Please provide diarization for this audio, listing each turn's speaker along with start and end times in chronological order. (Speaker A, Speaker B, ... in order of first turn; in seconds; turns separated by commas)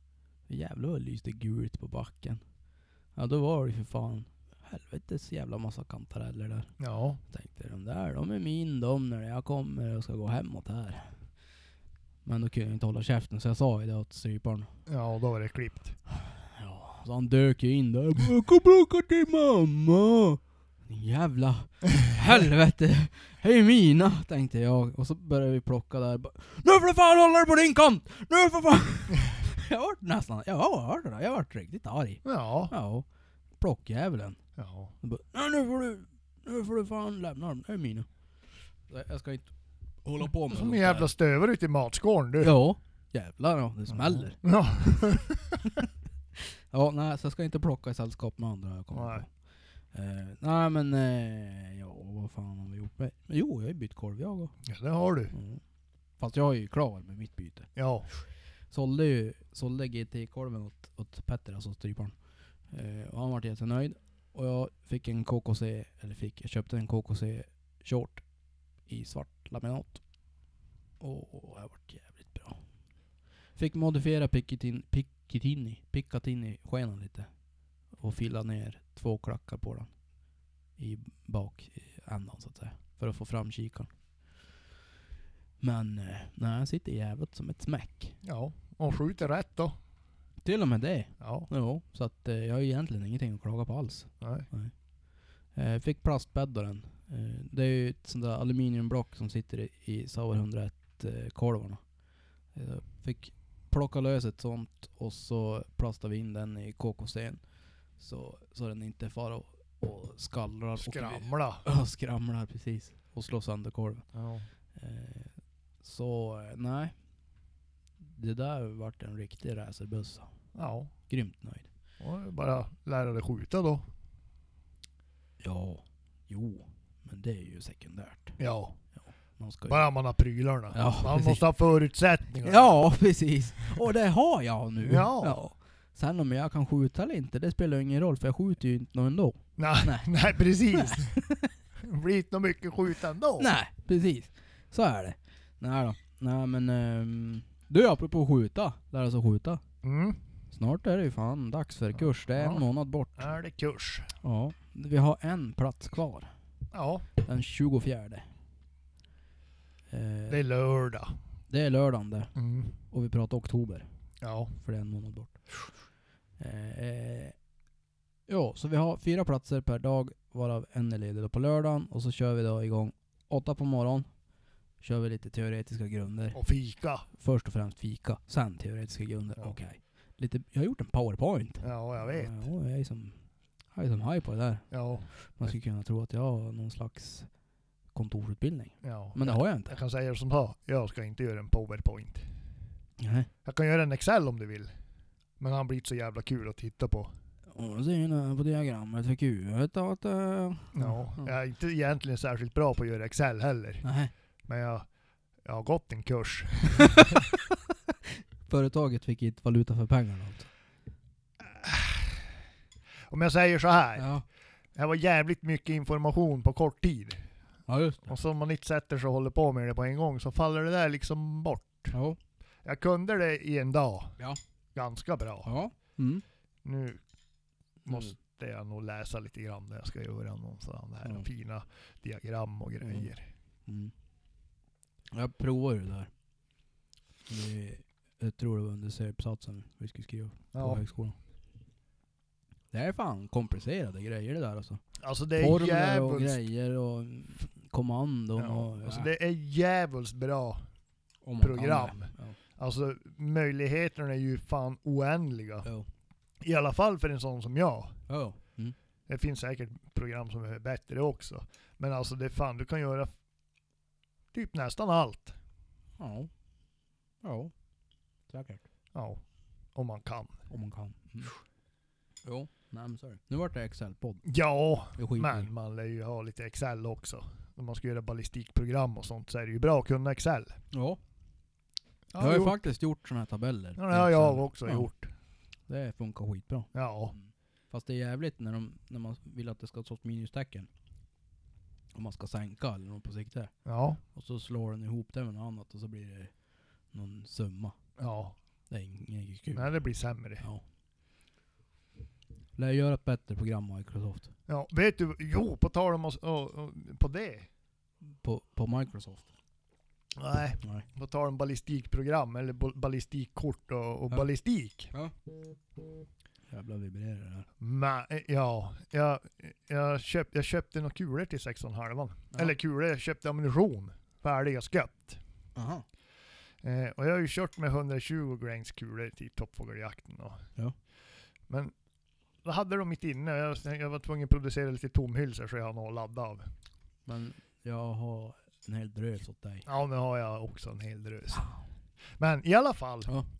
Speaker A: 0.5-2.4, Speaker A: 3.1-6.7, Speaker B: 6.8-7.2, Speaker A: 7.3-11.1, Speaker A: 12.2-14.7, Speaker B: 14.9-15.9, Speaker A: 16.1-33.0, Speaker B: 32.2-32.7, Speaker A: 33.6-34.4, Speaker B: 34.6-34.9, Speaker A: 35.0-38.1, Speaker A: 38.9-41.1, Speaker B: 40.5-42.5, Speaker A: 42.4-45.1, Speaker B: 43.9-45.7, Speaker A: 46.4-49.3, Speaker B: 48.9-49.2, Speaker A: 49.9-54.5, Speaker B: 54.6-55.3, Speaker A: 55.3-55.6, Speaker A: 56.2-57.7, Speaker B: 57.8-58.1, Speaker A: 58.7-62.1, Speaker A: 62.7-68.2, Speaker A: 68.8-70.0, Speaker A: 71.0-72.6, Speaker A: 73.5-77.3, Speaker A: 77.9-79.9, Speaker A: 80.8-83.9, Speaker A: 85.6-88.2, Speaker B: 88.2-89.7, Speaker A: 90.4-94.7, Speaker B: 91.2-91.5, Speaker B: 94.2-94.5, Speaker A: 95.5-101.8, Speaker A: 102.5-107.4, Speaker A: 108.0-114.0, Speaker B: 110.8-111.6, Speaker B: 114.1-114.5, Speaker A: 114.7-116.9, Speaker A: 118.1-120.3, Speaker B: 120.5-120.9, Speaker A: 121.1-121.7, Speaker B: 122.0-123.8, Speaker A: 125.4-128.4, Speaker B: 128.4-128.8, Speaker A: 129.4-129.9, Speaker B: 129.7-132.7, Speaker A: 130.7-131.4, Speaker A: 132.4-140.1, Speaker B: 134.8-135.4, Speaker B: 139.6-141.2, Speaker A: 140.7-141.5, Speaker B: 141.8-143.5, Speaker A: 143.4-149.6, Speaker B: 149.8-150.2, Speaker A: 150.5-153.3, Speaker B: 152.3-152.6, Speaker B: 153.2-154.1, Speaker A: 154.2-156.3, Speaker B: 156.7-157.1, Speaker A: 157.2-158.2, Speaker A: 159.9-160.4, Speaker B: 160.3-161.2, Speaker A: 161.5-162.3, Speaker B: 162.3-162.7, Speaker A: 162.9-163.9, Speaker B: 164.2-164.5, Speaker A: 164.6-165.5, Speaker A: 166.4-167.3, Speaker A: 168.3-174.1, Speaker A: 174.8-176.4, Speaker B: 176.3-177.1, Speaker A: 177.1-183.2, Speaker B: 181.6-182.3, Speaker A: 183.7-187.3, Speaker B: 184.7-185.1, Speaker A: 187.9-189.8, Speaker B: 188.8-192.2, Speaker A: 193.0-193.3, Speaker B: 193.4-194.7, Speaker B: 195.4-197.1, Speaker A: 197.5-201.3, Speaker B: 200.7-203.8, Speaker A: 203.8-204.1, Speaker B: 204.5-204.9, Speaker B: 205.4-207.3, Speaker A: 206.8-207.2, Speaker A: 208.4-210.5, Speaker B: 211.4-212.3, Speaker B: 213.1-214.1, Speaker A: 213.9-214.2, Speaker B: 214.7-217.3, Speaker A: 217.7-218.1, Speaker B: 218.1-221.9, Speaker A: 221.9-222.2, Speaker B: 222.6-224.2, Speaker B: 224.7-225.5, Speaker A: 225.4-226.2, Speaker B: 226.6-227.0, Speaker A: 227.9-228.1, Speaker B: 227.9-233.2, Speaker A: 232.8-233.1, Speaker A: 233.7-233.9, Speaker A: 235.1-236.1, Speaker A: 237.3-241.2, Speaker B: 240.5-240.8, Speaker A: 242.7-244.8, Speaker B: 245.0-246.4, Speaker A: 245.4-249.1, Speaker B: 248.4-250.7, Speaker A: 251.2-252.4, Speaker B: 251.4-255.7, Speaker B: 256.4-257.9, Speaker A: 258.1-258.7, Speaker B: 259.1-263.1, Speaker B: 264.3-265.3, Speaker A: 266.0-266.3, Speaker A: 267.2-267.5, Speaker A: 268.3-268.6, Speaker B: 268.9-269.2, Speaker B: 269.7-270.4, Speaker A: 270.5-271.4, Speaker A: 272.2-274.2, Speaker B: 274.2-280.6, Speaker A: 274.9-275.5, Speaker A: 280.7-281.0, Speaker B: 282.1-282.6, Speaker A: 282.2-284.9, Speaker B: 283.8-285.1, Speaker A: 285.7-290.7, Speaker B: 286.7-287.1, Speaker A: 291.9-293.5, Speaker B: 293.6-294.0, Speaker A: 294.1-296.3, Speaker A: 296.9-297.8, Speaker B: 298.0-298.3, Speaker A: 298.7-299.7, Speaker B: 299.5-300.4, Speaker A: 302.6-304.3, Speaker B: 304.5-307.5, Speaker A: 308.2-309.3, Speaker B: 310.1-314.9, Speaker A: 316.5-317.5, Speaker B: 317.6-325.2, Speaker A: 325.6-325.8, Speaker B: 326.6-330.4, Speaker B: 332.4-336.5, Speaker A: 337.1-339.6, Speaker B: 339.6-341.4, Speaker A: 341.3-341.6, Speaker B: 342.2-343.1